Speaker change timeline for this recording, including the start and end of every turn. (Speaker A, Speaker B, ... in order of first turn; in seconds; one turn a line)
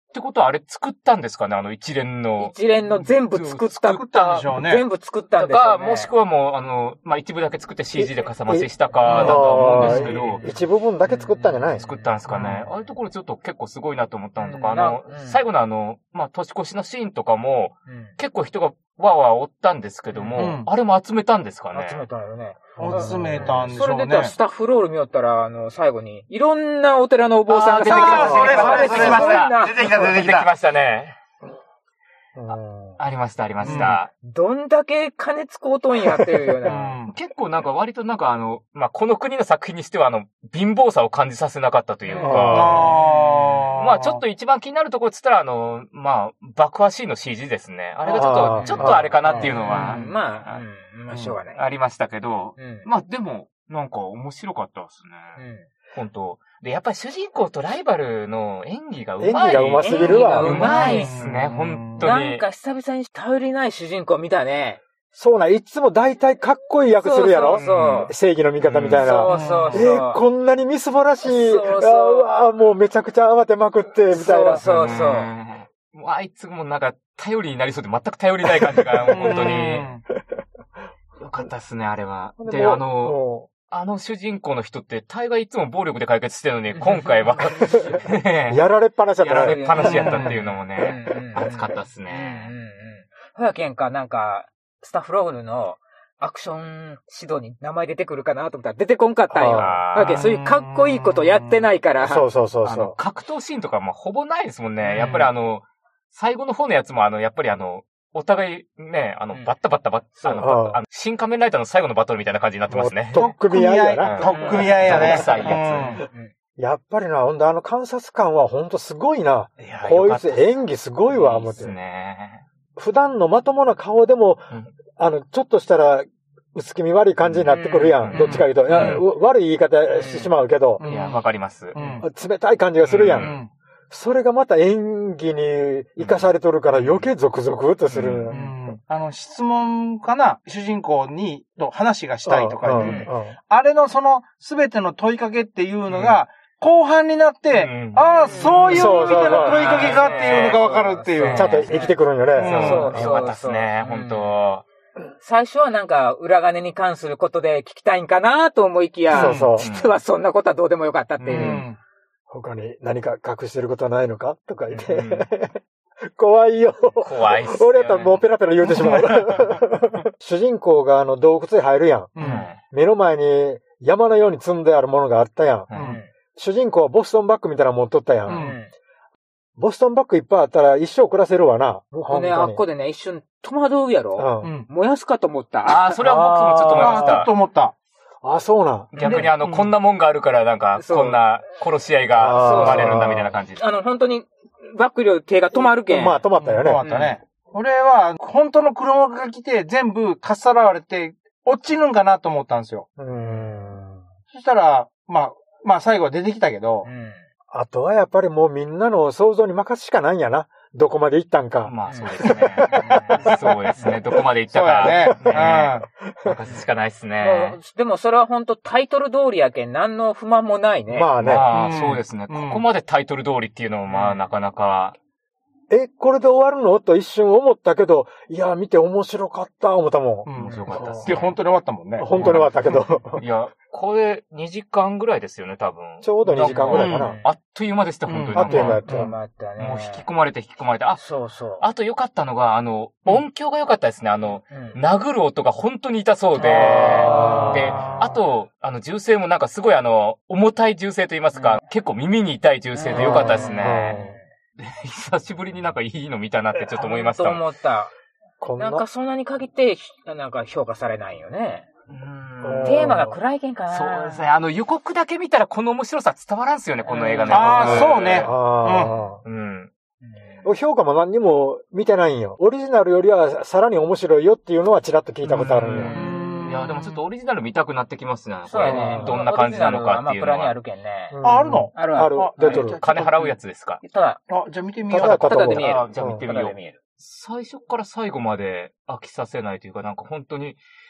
Speaker A: 0.1-2.6
Speaker B: 2.4-6.1
Speaker C: 3.3-4.8
Speaker A: 5.4-10.5
Speaker D: 8.0-11.9
Speaker B: 9.0-12.6
Speaker C: 9.1-9.4
Speaker A: 11.8-22.1
Speaker C: 12.3-12.6
Speaker B: 14.4-15.4
Speaker B: 17.9-18.1
Speaker B: 20.1-20.6
Speaker C: 20.4-20.7
Speaker B: 21.7-29.8
Speaker D: 22.8-23.6
Speaker C: 22.8-24.4
Speaker A: 27.5-31.1
Speaker C: 27.8-30.5
Speaker D: 28.1-29.3
Speaker D: 32.4-33.0
Speaker A: 33.0-34.1
Speaker C: 33.6-34.0
Speaker B: 33.6-36.9
Speaker D: 36.2-36.8
Speaker C: 36.7-37.1
Speaker A: 37.1-50.6
Speaker B: 42.1-42.9
Speaker D: 42.2-42.9
Speaker C: 42.5-44.2
Speaker B: 48.0-51.6
Speaker D: 48.1-49.1
Speaker C: 49.7-50.1
Speaker C: 51.1-51.4
Speaker A: 51.5-55.4
Speaker B: 52.6-52.9
Speaker B: 55.4-55.7
Speaker A: 55.9-62.5
Speaker D: 59.2-60.7
Speaker B: 59.8-61.1
Speaker C: 60.1-62.1
Speaker B: 62.0-64.8
Speaker D: 65.1-74.7
Speaker B: 67.0-68.1
Speaker A: 67.5-69.1
Speaker B: 69.0-70.2
Speaker C: 69.3-69.9
Speaker B: 71.2-72.3
Speaker B: 74.1-75.3
Speaker A: 74.6-79.9
Speaker D: 78.6-79.7
Speaker C: 79.1-80.0
Speaker A: 81.2-83.2
Speaker D: 82.4-83.5
Speaker A: 83.7-88.6
Speaker B: 86.8-88.0
Speaker D: 88.5-90.0
Speaker A: 89.2-92.5
Speaker B: 89.4-102.3
Speaker C: 89.8-90.3
Speaker D: 99.3-99.8
Speaker A: 99.5-100.3
Speaker C: 100.1-101.7
Speaker D: 102.0-103.0
Speaker A: 102.6-113.3
Speaker C: 104.8-105.3
Speaker B: 110.2-110.5
Speaker D: 110.4-110.8
Speaker D: 112.7-115.5
Speaker C: 113.1-116.0
Speaker A: 114.0-116.0
Speaker B: 114.2-116.3
Speaker D: 116.6-121.8
Speaker A: 119.6-122.5
Speaker D: 122.8-130.8
Speaker A: 127.2-129.1
Speaker B: 127.5-128.5
Speaker B: 129.9-130.3
Speaker C: 130.8-131.2
Speaker A: 130.8-132.0
Speaker C: 131.7-132.1
Speaker D: 132.0-133.4
Speaker A: 132.8-133.4
Speaker C: 133.2-133.5
Speaker D: 133.9-138.4
Speaker A: 136.0-137.1
Speaker A: 137.9-138.4
Speaker C: 138.3-151.6
Speaker D: 142.2-143.4
Speaker B: 142.7-143.1
Speaker A: 145.9-146.2
Speaker A: 147.5-151.9
Speaker B: 148.1-152.0
Speaker D: 148.7-149.7
Speaker D: 151.3-153.2
Speaker C: 152.4-152.9
Speaker A: 152.4-154.6
Speaker B: 152.5-154.3
Speaker B: 155.2-161.7
Speaker D: 159.1-159.7
Speaker C: 159.1-159.5
Speaker A: 159.6-159.9
Speaker A: 161.2-161.7
Speaker C: 161.3-161.8
Speaker D: 162.3-172.2
Speaker A: 164.7-165.3
Speaker A: 167.0-168.2
Speaker C: 168.6-169.6
Speaker C: 172.2-172.5
Speaker A: 172.2-172.6
Speaker D: 172.7-175.7
Speaker A: 175.7-176.0
Speaker C: 175.7-176.0
Speaker B: 175.8-176.1
Speaker D: 176.4-178.5
Speaker B: 178.3-178.7
Speaker C: 178.3-178.6
Speaker D: 179.6-182.6
Speaker B: 182.1-185.9
Speaker D: 184.2-184.5
Speaker C: 184.4-184.7
Speaker A: 185.7-187.3
Speaker D: 186.1-187.1
Speaker C: 186.7-187.8
Speaker D: 188.2-189.0
Speaker A: 188.9-193.6
Speaker B: 189.0-189.3
Speaker C: 189.0-189.7
Speaker B: 190.8-191.2
Speaker D: 192.2-193.3
Speaker B: 192.4-193.1
Speaker B: 193.6-196.3
Speaker D: 195.5-196.8
Speaker C: 196.4-202.9
Speaker B: 196.8-197.2
Speaker D: 203.0-204.0
Speaker B: 203.2-203.7
Speaker C: 204.3-206.9
Speaker B: 206.8-207.2
Speaker D: 207.5-213.7
Speaker A: 211.7-217.6
Speaker B: 211.9-214.0
Speaker C: 214.5-215.9
Speaker D: 214.9-215.3
Speaker D: 216.1-216.4
Speaker B: 217.2-221.1
Speaker D: 220.9-221.5
Speaker A: 221.2-225.0
Speaker C: 221.5-222.7
Speaker B: 223.9-224.2
Speaker D: 225.7-231.1
Speaker C: 230.3-232.1
Speaker A: 230.4-231.4
Speaker D: 232.0-233.2
Speaker A: 232.1-232.5
Speaker A: 233.2-238.8
Speaker D: 236.0-237.2
Speaker C: 236.7-237.1
Speaker B: 236.8-237.3
Speaker C: 238.1-238.8
Speaker D: 238.3-239.2
Speaker B: 238.9-240.1
Speaker A: 239.6-241.0
Speaker B: 241.0-241.7
Speaker A: 241.6-254.1
Speaker B: 244.5-244.8
Speaker B: 246.3-248.1
Speaker D: 246.4-248.1
Speaker B: 251.3-251.6
Speaker B: 252.7-254.2
Speaker D: 252.9-254.2
Speaker A: 254.6-257.4
Speaker B: 256.8-257.9
Speaker D: 258.4-258.9
Speaker B: 258.6-261.7
Speaker A: 261.9-263.0
Speaker D: 262.4-263.2
Speaker B: 262.6-264.3
Speaker A: 263.7-268.3
Speaker B: 266.9-268.0
Speaker C: 267.3-268.9
Speaker D: 267.3-269.2
Speaker A: 269.2-269.7
Speaker B: 270.1-270.5
Speaker D: 270.4-276.0
Speaker A: 275.2-280.6
Speaker B: 275.9-276.8
Speaker C: 275.9-276.8
Speaker B: 278.5-281.2
Speaker D: 278.6-279.2
Speaker D: 281.1-282.8
Speaker C: 281.2-283.3
Speaker B: 281.7-282.6
Speaker A: 282.6-283.8
Speaker B: 283.8-284.2
Speaker C: 284.3-285.4
Speaker D: 284.9-286.2
Speaker B: 284.9-286.8
Speaker A: 285.3-290.6